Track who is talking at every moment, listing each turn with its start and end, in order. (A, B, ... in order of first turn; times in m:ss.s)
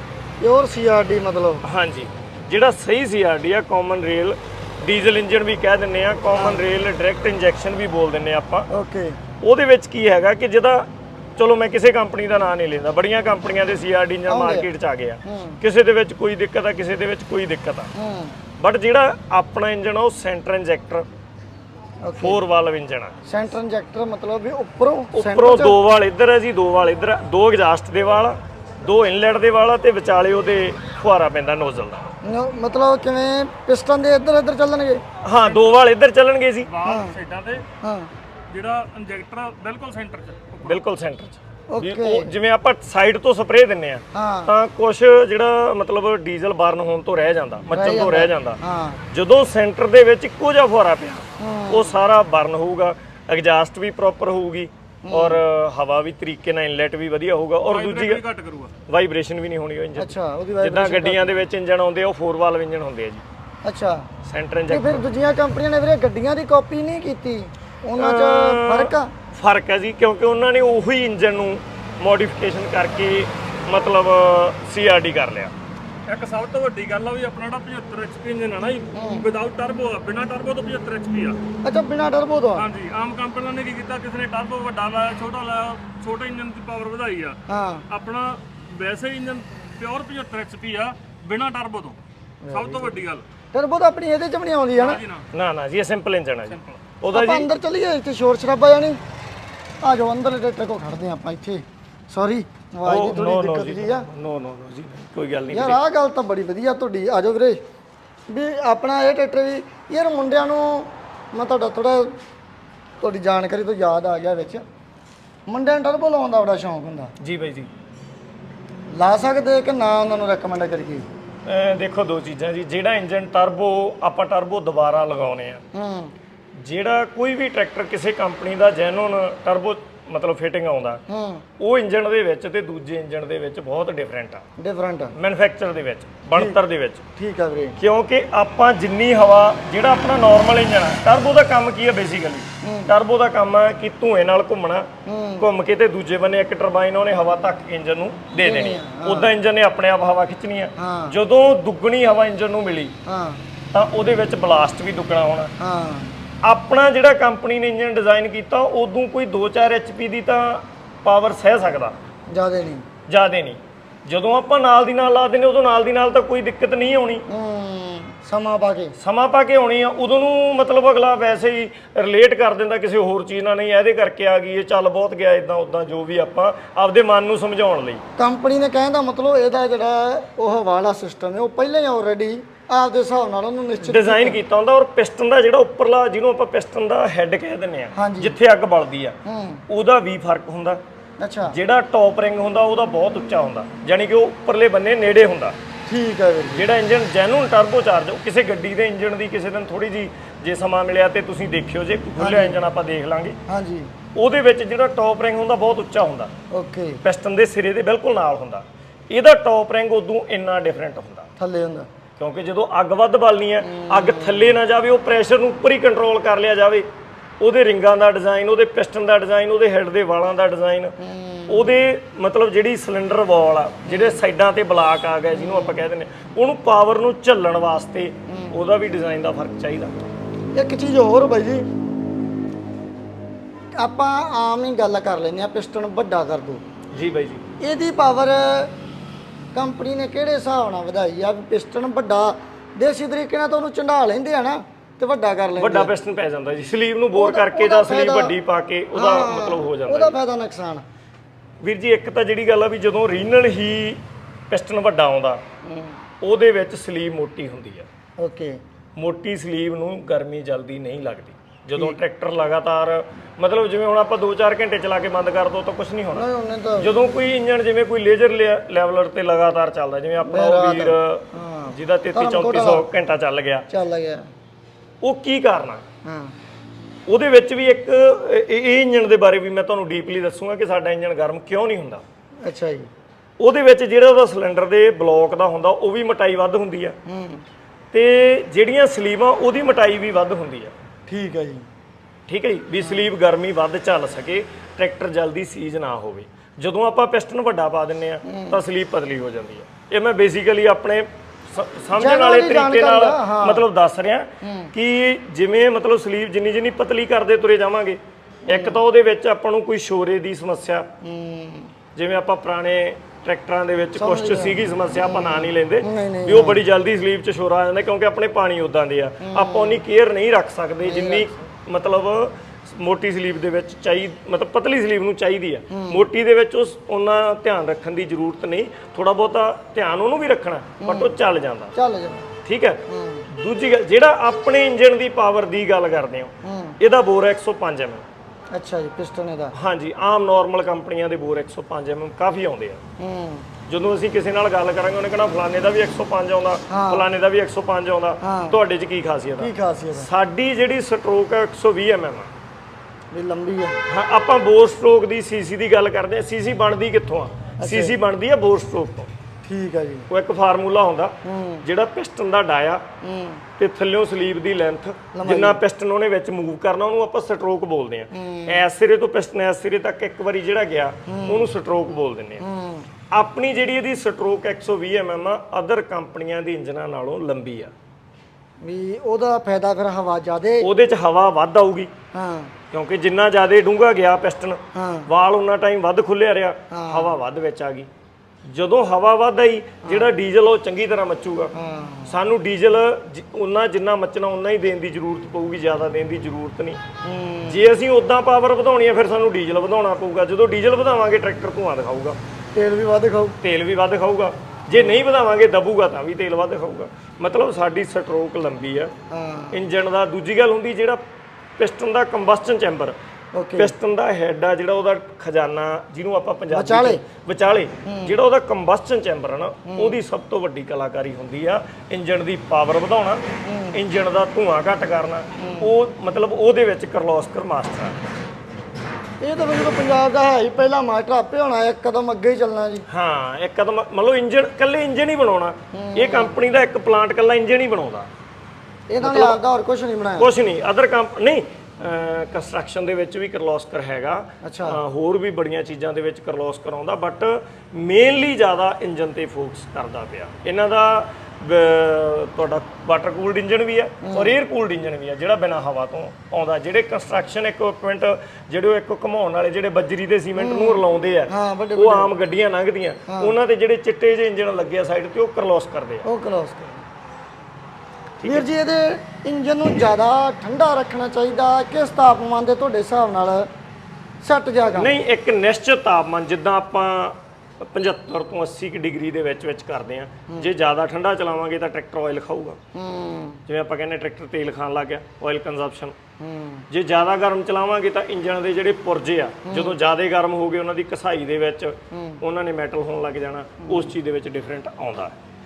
0:00.4-0:01.6 A
0:01.6-0:08.7 B
0:06.4-0:06.6 A
0:08.7-0:09.2 A
0:09.4-0:17.9 B
0:14.3-0:14.7 A
0:15.2-0:15.6 A
0:18.0-0:18.4 A
0:18.6-0:21.1 B
0:22.0-0:22.4 A
0:22.2-0:23.1 B
0:23.3-0:25.8 A
0:25.1-0:32.1 B
0:32.2-0:35.0 A
0:35.2-0:36.7 B
0:36.7-0:37.6 C
0:36.8-0:37.2 A
0:37.8-0:38.1 A
0:38.5-0:40.8 C
0:40.6-0:48.6 B
0:41.7-0:42.3 A
0:44.1-0:44.5 A
0:47.7-0:49.0 A
0:49.1-0:58.2 B
0:51.4-0:52.0 A
0:55.1-0:55.4 A
0:57.6-0:58.7 C
0:58.9-1:03.2 B
1:00.0-1:01.4 A
1:03.6-1:04.1 A
1:04.2-1:05.0 B
1:04.7-1:09.1 A
1:08.0-1:15.5 B
1:16.1-1:21.4 C
1:18.9-1:19.3 A
1:21.6-1:22.7 A
1:22.6-1:27.4 C
1:27.5-1:27.8 A
1:27.9-1:33.2 C
1:32.4-1:33.0 A
1:33.5-1:35.0 A
1:34.8-1:35.3 C
1:35.3-1:37.5 B
1:37.1-1:39.0 A
1:39.8-1:44.1 A
1:42.8-1:45.8 B
1:45.5-1:47.6 A
1:48.3-1:52.2 A
1:53.0-1:54.6 A
1:55.5-1:57.1 A
1:57.2-1:57.7 B
1:58.9-2:01.1 A
2:01.5-2:05.6 B
2:05.7-2:06.1 A
2:06.6-2:11.0 B
2:11.1-2:11.4 A
2:11.6-2:14.4 B
2:14.6-2:15.1 A
2:15.1-2:17.0 B
2:17.2-2:17.8 A
2:17.8-2:24.9 B
2:22.6-2:23.0 A
2:25.1-2:25.5 A
2:25.4-2:33.0 B
2:28.4-2:29.3 A
2:30.8-2:31.2 A
2:33.1-2:33.4 A
2:33.7-2:35.5 B
2:35.6-2:36.1 A
2:36.4-2:42.0 B
2:42.3-2:42.9 A
2:43.1-2:47.3 B
2:47.3-2:49.0 A
2:49.0-2:58.0 B
2:58.2-3:04.4 A
3:03.8-3:09.2 B
3:08.0-3:08.4 A
3:09.2-3:09.6 A
3:09.7-3:10.8 B
3:11.2-3:11.6 A
3:11.5-3:15.6 B
3:15.9-3:16.7 A
3:16.5-3:23.4 B
3:22.2-3:22.6 A
3:23.5-3:23.9 A
3:24.2-3:26.3 B
3:26.5-3:27.0 A
3:27.0-3:31.3 B
3:31.4-3:31.9 A
3:32.2-3:36.9 B
3:33.6-3:34.6 A
3:37.4-3:41.0 B
3:41.0-3:41.7 A
3:41.5-3:50.0 B
3:43.9-3:44.2 A
3:45.4-3:45.8 A
3:48.3-3:48.6 A
3:50.6-3:51.7 A
3:53.8-3:56.6 A
3:56.9-3:57.5 B
3:57.6-3:58.7 A
3:59.5-4:05.9 A
4:05.6-4:10.2 B
4:07.1-4:08.4 A
4:09.0-4:10.8 A
4:11.6-4:15.4 B
4:15.7-4:16.0 A
4:16.2-4:17.9 B
4:18.2-4:18.6 A
4:19.0-4:26.3 B
4:26.1-4:26.9 A
4:26.8-4:33.7 B
4:30.2-4:32.9 A
4:33.7-4:34.3 A
4:35.0-4:35.8 B
4:36.0-4:36.3 A
4:37.1-4:42.0 B
4:42.4-4:42.9 A
4:43.4-4:47.0 B
4:47.1-4:47.4 A
4:47.9-4:50.7 B
4:51.1-4:51.7 A
4:52.3-5:10.9 B
4:52.8-4:53.1 A
4:58.2-4:58.6 A
5:02.0-5:03.6 A
5:04.4-5:04.7 A
5:08.5-5:08.8 A
5:11.0-5:11.7 A
5:12.0-5:31.7 B
5:14.0-5:16.6 A
5:19.2-5:19.8 A
5:20.8-5:21.4 A
5:25.7-5:26.1 A
5:30.8-5:31.2 A
5:31.8-5:32.3 A
5:32.4-5:38.0 B
5:32.9-5:33.3 A
5:36.4-5:36.8 A
5:38.5-5:39.5 A
5:39.5-5:42.8 B
5:43.0-5:43.5 A
5:43.7-5:52.3 B
5:46.7-5:47.1 A
5:48.2-5:48.6 A
5:49.4-5:50.1 A
5:53.1-5:53.8 A
5:53.9-5:59.1 B
5:57.6-5:58.0 A
5:59.4-6:00.1 A
6:00.1-6:02.8 B
6:01.2-6:01.6 A
6:03.0-6:03.4 A
6:03.6-6:12.4 B
6:05.1-6:05.6 A
6:08.1-6:08.7 A
6:11.1-6:11.5 A
6:12.4-6:12.9 A
6:13.1-6:17.7 B
6:18.6-6:20.7 A
6:20.6-6:21.9 B
6:22.1-6:22.5 A
6:22.7-6:27.9 B
6:24.8-6:25.1 A
6:26.7-6:27.2 A
6:28.5-6:31.5 B
6:31.5-6:32.2 A
6:32.1-6:36.8 B
6:37.0-6:37.6 A
6:37.5-6:42.2 B
6:42.5-6:43.4 A
6:43.4-6:48.9 B
6:49.1-6:49.6 A
6:49.5-6:51.0 B
6:51.6-6:53.0 B
6:53.4-6:53.7 A
6:53.6-7:08.0 B
6:56.5-6:57.0 A
6:57.9-6:58.2 A
6:59.7-7:00.0 A
7:03.4-7:03.8 A
7:05.4-7:05.7 A
7:09.2-7:12.8 A
7:12.9-7:18.1 B
7:15.7-7:16.4 A
7:18.9-7:20.3 A
7:19.0-7:19.4 B
7:20.2-7:46.1 B
7:24.4-7:24.8 A
7:34.0-7:34.4 A
7:40.4-7:42.1 A
7:43.1-7:43.3 A
7:46.0-7:46.9 A
7:48.2-7:48.5 B
7:48.2-7:53.5 A
7:54.2-7:54.9 A
7:54.8-8:02.6 B
8:02.8-8:03.4 A
8:03.5-8:06.0 B
8:06.2-8:06.7 A
8:06.7-8:15.2 B
8:09.5-8:09.8 A
8:11.9-8:12.2 A
8:13.6-8:14.0 A